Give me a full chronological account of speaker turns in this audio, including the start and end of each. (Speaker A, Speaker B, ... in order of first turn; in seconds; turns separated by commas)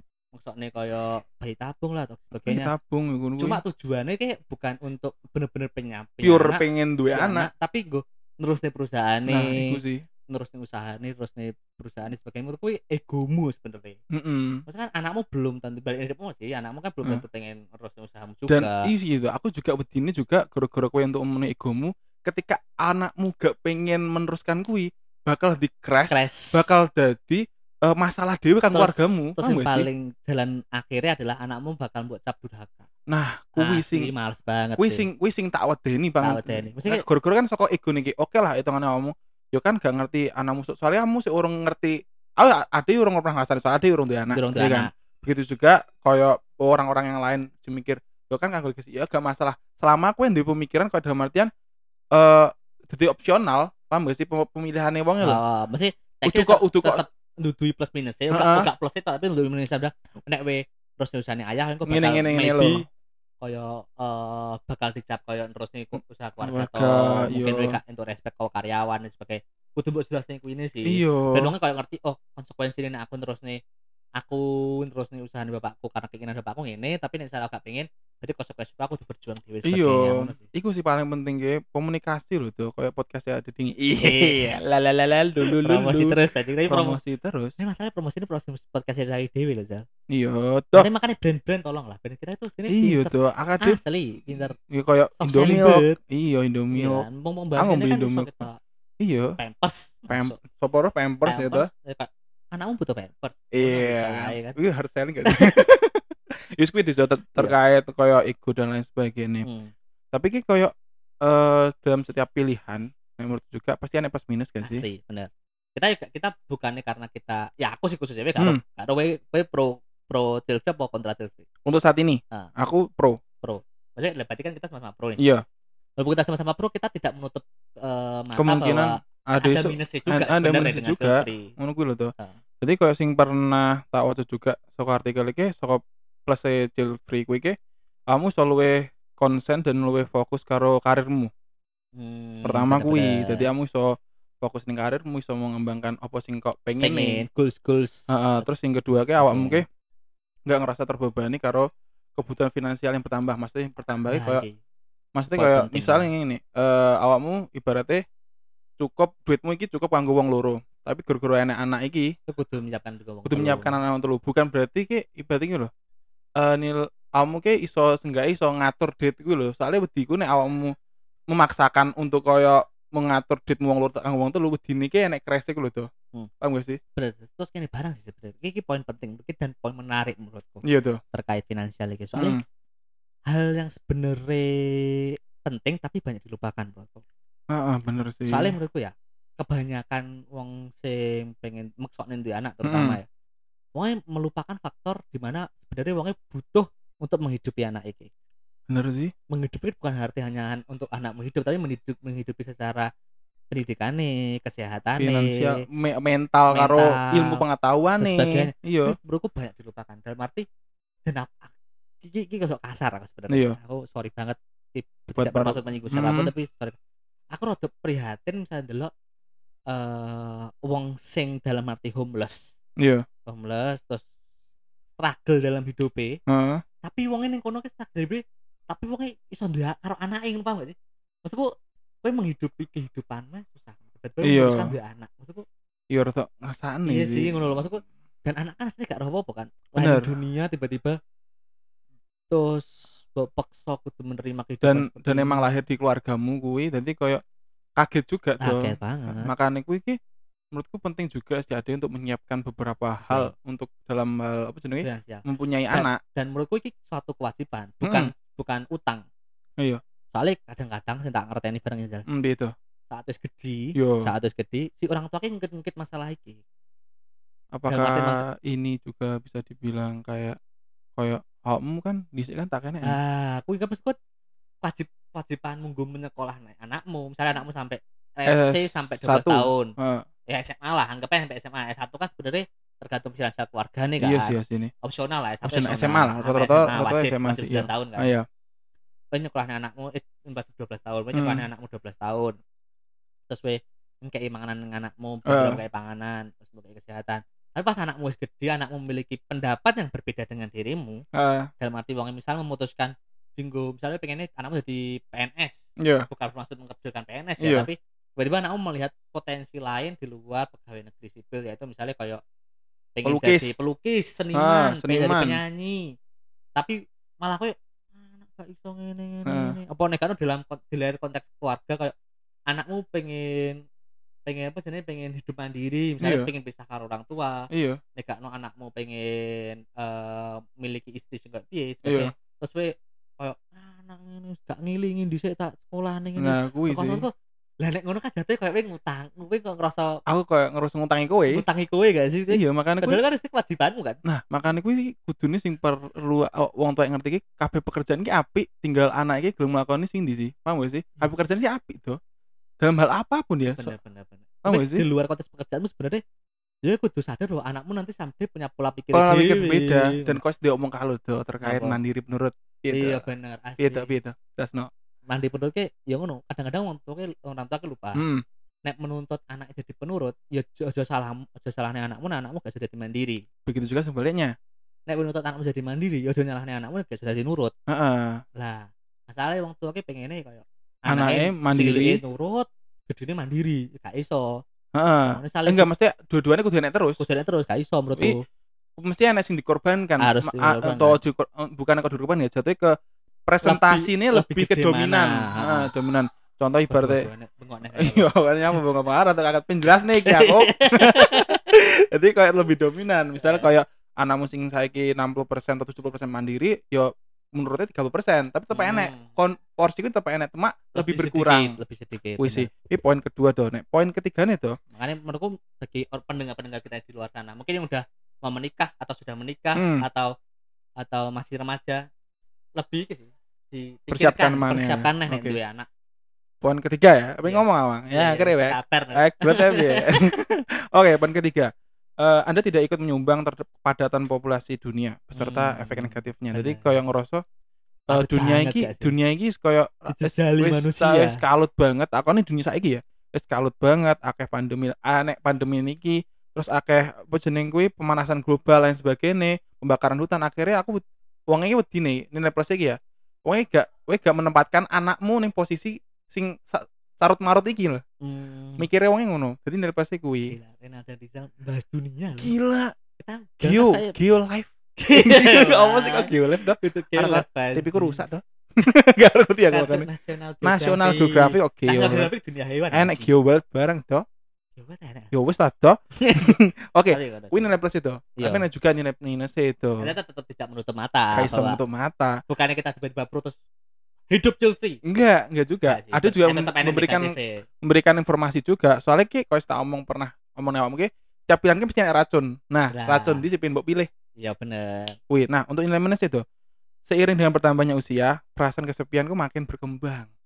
Speaker A: 0.3-2.7, Speaker B: 2.5-3.6, Speaker A: 3.4-9.8, Speaker B: 6.2-7.5, Speaker B: 9.3-10.0, Speaker A: 10.3-14.0, Speaker B: 14.1-14.6, Speaker A: 14.7-18.9, Speaker B: 18.5-29.9, Speaker A: 26.1-26.8, Speaker A: 28.7-32.9, Speaker B: 33.1-34.1, Speaker A: 33.6-35.0, Speaker B: 34.8-51.5, Speaker A: 36.2-37.0, Speaker A: 44.3-44.9, Speaker B: 52.1-55.4, Speaker A: 55.2-62.8, Speaker B: 56.2-57.0, Speaker B: 58.3-58.7, Speaker B: 61.9-62.8, Speaker A: 63.4-73.6, Speaker B: 66.4-67.8, Speaker B: 70.8-71.5, Speaker A: 74.2-80.5, Speaker B: 79.6-87.5, Speaker A: 84.0-84.6, Speaker A: 85.4-87.0, Speaker A: 87.6-89.8, Speaker B: 90.1-90.9, Speaker A: 90.7-94.5, Speaker B: 92.7-93.8, Speaker B: 94.6-97.0, Speaker A: 95.2-96.0, Speaker A: 96.7-98.6, Speaker B: 97.6-98.4, Speaker B: 99.0-99.4, Speaker A: 99.4-100.4, Speaker B: 100.1-101.7, Speaker A: 101.2-104.6, Speaker B: 103.5-106.0, Speaker A: 105.2-105.5, Speaker B: 106.6-109.5, Speaker A: 109.4-109.7, Speaker B: 110.1-114.8, Speaker A: 114.6-121.5, Speaker B: 121.7-123.2, Speaker A: 123.4-125.2, Speaker B: 125.2-125.4, Speaker A: 126.0-131.5, Speaker B: 128.4-137.5, Speaker B: 138.1-141.3, Speaker A: 141.9-143.5, Speaker B: 142.4-147.2, Speaker A: 146.8-148.4, Speaker B: 148.1-149.7, Speaker A: 149.2-149.6, Speaker B: 150.5-154.4, Speaker A: 154.1-154.5, Speaker B: 155.1-158.0, Speaker A: 155.3-156.1, Speaker B: 158.8-162.1, Speaker A: 162.3-163.8, Speaker B: 163.2-165.7, Speaker B: 166.4-170.7, Speaker B: 171.3-175.9, Speaker B: 176.4-176.8, Speaker A: 176.9-182.4, Speaker B: 180.6-181.0, Speaker B: 182.2-182.4, Speaker A: 183.3-187.0, Speaker B: 187.5-188.5, Speaker A: 188.3-193.1, Speaker B: 192.6-193.0, Speaker A: 193.7-198.1, Speaker B: 198.7-199.1, Speaker A: 199.3-202.9, Speaker A: 203.5-205.6, Speaker B: 205.0-208.9, Speaker A: 206.5-207.4, Speaker A: 208.0-210.4, Speaker A: 211.1-216.8, Speaker B: 213.3-213.6, Speaker B: 215.1-216.3, Speaker A: 217.3-218.9, Speaker A: 219.7-222.5, Speaker B: 222.8-223.0, Speaker A: 223.3-224.1, Speaker A: 225.0-226.2, Speaker B: 226.3-226.6, Speaker A: 226.8-231.5, Speaker A: 232.0-235.4, Speaker B: 234.2-234.7, Speaker B: 235.9-237.4, Speaker A: 236.8-241.0, Speaker B: 239.8-240.1, Speaker A: 242.3-245.6, Speaker B: 244.6-247.2, Speaker B: 247.8-250.0, Speaker A: 248.4-249.3, Speaker B: 250.5-256.0, Speaker A: 253.0-253.3, Speaker A: 254.8-259.0, Speaker B: 257.8-258.1, Speaker A: 260.1-262.1, Speaker B: 262.1-262.5, Speaker A: 262.9-266.4, Speaker B: 263.8-264.1, Speaker B: 267.5-270.4, Speaker A: 267.7-268.2, Speaker B: 271.0-273.0, Speaker A: 272.8-274.0, Speaker A: 274.6-279.7, Speaker B: 278.2-280.1, Speaker A: 280.3-288.1, Speaker B: 284.0-284.7, Speaker B: 285.4-288.2, Speaker A: 289.1-292.4, Speaker B: 291.1-291.4, Speaker A: 293.3-301.0, Speaker B: 295.3-295.6, Speaker B: 301.1-301.5, Speaker A: 301.6-312.2, Speaker B: 305.8-306.1, Speaker B: 307.4-307.7, Speaker A: 312.9-315.8, Speaker B: 313.0-313.6, Speaker B: 314.3-315.4, Speaker A: 316.6-321.9, Speaker B: 319.2-319.6, Speaker A: 322.5-323.6, Speaker A: 324.2-327.4, Speaker B: 326.0-326.3, Speaker B: 327.5-327.8, Speaker A: 328.0-337.1, Speaker B: 331.9-332.1, Speaker B: 336.2-337.0, Speaker A: 337.6-339.9, Speaker B: 340.1-341.4, Speaker A: 341.3-344.0, Speaker B: 342.3-343.0, Speaker B: 344.1-352.0, Speaker B: 352.6-353.7, Speaker A: 353.5-356.0, Speaker B: 354.4-354.8, Speaker A: 356.6-360.2, Speaker B: 358.9-363.1, Speaker A: 361.4-361.8, Speaker A: 362.7-363.9, Speaker B: 363.6-364.7, Speaker A: 365.1-368.0, Speaker B: 367.9-368.2, Speaker A: 368.6-373.2, Speaker B: 373.4-374.3, Speaker A: 374.9-377.5, Speaker B: 377.7-378.2, Speaker A: 378.4-384.4, Speaker B: 380.9-382.0, Speaker B: 384.7-387.0, Speaker A: 385.1-385.7, Speaker A: 387.0-388.2, Speaker B: 388.8-392.7, Speaker A: 390.0-391.0, Speaker B: 393.3-397.1, Speaker A: 393.4-395.7, Speaker A: 396.7-398.6, Speaker B: 397.8-411.6, Speaker A: 400.1-401.4, Speaker A: 403.2-403.5, Speaker A: 408.5-409.1, Speaker A: 410.7-412.5, Speaker B: 412.2-414.6, Speaker A: 414.8-420.1, Speaker B: 419.6-419.8, Speaker A: 420.8-421.8, Speaker A: 422.6-425.7, Speaker B: 423.9-425.4, Speaker B: 426.4-437.2, Speaker A: 427.2-430.1, Speaker A: 435.1-436.7, Speaker A: 437.9-438.9, Speaker B: 437.9-457.8, Speaker A: 439.9-441.2, Speaker A: 458.0-458.6, Speaker B: 458.6-460.3, Speaker A: 460.2-462.3, Speaker B: 462.2-462.7, Speaker A: 463.0-463.9, Speaker B: 463.4-469.9, Speaker A: 464.8-468.0, Speaker A: 469.5-473.1, Speaker B: 470.4-472.1, Speaker B: 472.7-474.0, Speaker A: 474.6-475.1, Speaker B: 475.1-479.9, Speaker A: 476.0-476.4, Speaker A: 476.9-477.5, Speaker A: 478.2-478.4, Speaker A: 479.8-481.6, Speaker B: 481.1-482.1, Speaker A: 482.3-483.4, Speaker A: 484.1-484.8, Speaker B: 484.8-493.9, Speaker A: 485.7-487.4, Speaker A: 492.7-493.2, Speaker A: 494.2-495.0, Speaker B: 495.1-496.2, Speaker B: 496.9-500.1